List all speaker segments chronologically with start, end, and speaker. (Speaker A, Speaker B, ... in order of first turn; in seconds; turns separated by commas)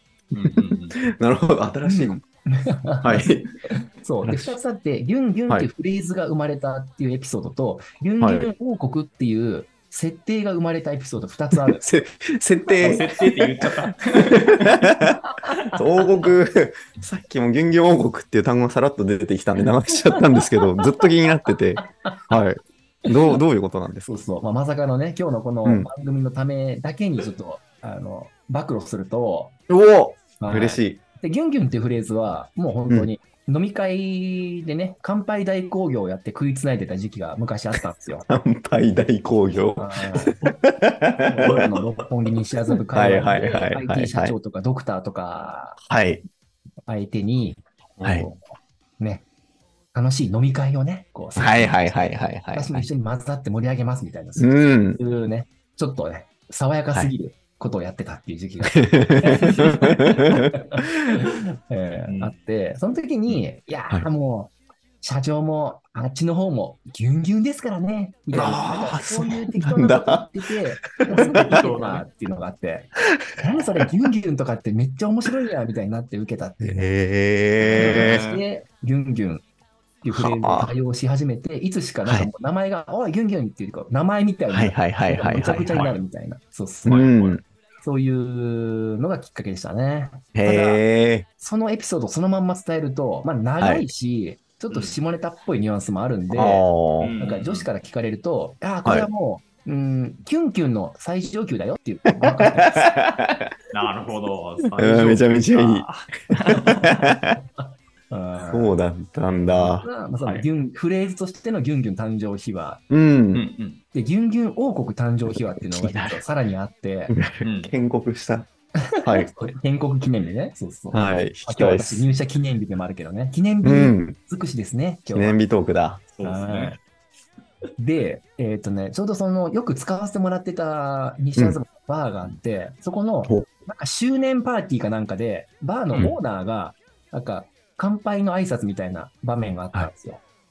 Speaker A: 0.3-1.0, Speaker B: 1.0-2.2, Speaker C: 1.8-11.9, Speaker B: 3.0-3.5, Speaker B: 4.2-4.5, Speaker B: 8.2-8.5, Speaker B: 11.8-13.6, Speaker A: 12.8-14.8, Speaker B: 14.3-15.2, Speaker C: 15.4-15.8, Speaker B: 15.7-24.1, Speaker C: 24.1-29.5, Speaker B: 25.6-25.9, Speaker B: 29.7-31.0, Speaker C: 30.4-38.3, Speaker B: 38.3-41.7, Speaker C: 39.8-40.4, Speaker C: 41.2-45.8, Speaker B: 42.9-44.3, Speaker B: 45.8-46.2, Speaker C: 46.9-48.4, Speaker B: 48.0-48.3, Speaker C: 49.0-49.2, Speaker C: 49.9-51.9, Speaker B: 51.4-52.9, Speaker C: 52.5-76.8, Speaker B: 54.4-55.0, Speaker B: 58.7-60.8, Speaker A: 62.1-62.3, Speaker B: 68.3-70.3, Speaker A: 71.1-72.0, Speaker B: 71.1-71.6, Speaker B: 76.6-78.2, Speaker A: 77.6-78.4, Speaker C: 77.7-79.4, Speaker C: 80.0-87.1, Speaker B: 80.1-80.7, Speaker B: 82.0-82.3, Speaker B: 84.5-85.9, Speaker A: 85.7-86.0, Speaker B: 86.8-87.4, Speaker A: 86.9-87.4, Speaker C: 87.8-90.8, Speaker B: 90.3-91.2, Speaker C: 91.4-96.7, Speaker B: 93.6-93.8, Speaker A: 94.7-95.0, Speaker B: 96.3-97.1, Speaker A: 97.0-97.7, Speaker C: 97.2-102.9, Speaker B: 102.2-103.5, Speaker A: 103.7-107.0, Speaker B: 104.8-105.9, Speaker B: 106.5-107.4, Speaker C: 108.1-108.7, Speaker B: 108.5-109.9, Speaker A: 109.5-110.5, Speaker C: 109.8-112.8, Speaker B: 112.9-113.4, Speaker A: 113.3-113.8, Speaker C: 113.9-117.1, Speaker B: 115.3-116.2, Speaker B: 117.1-118.5, Speaker A: 117.4-117.7, Speaker C: 118.9-125.4, Speaker B: 119.0-119.3, Speaker B: 120.9-122.1, Speaker B: 123.6-124.2, Speaker B: 125.1-126.0, Speaker A: 126.1-126.8, Speaker C: 126.2-126.8, Speaker C: 127.8-140.2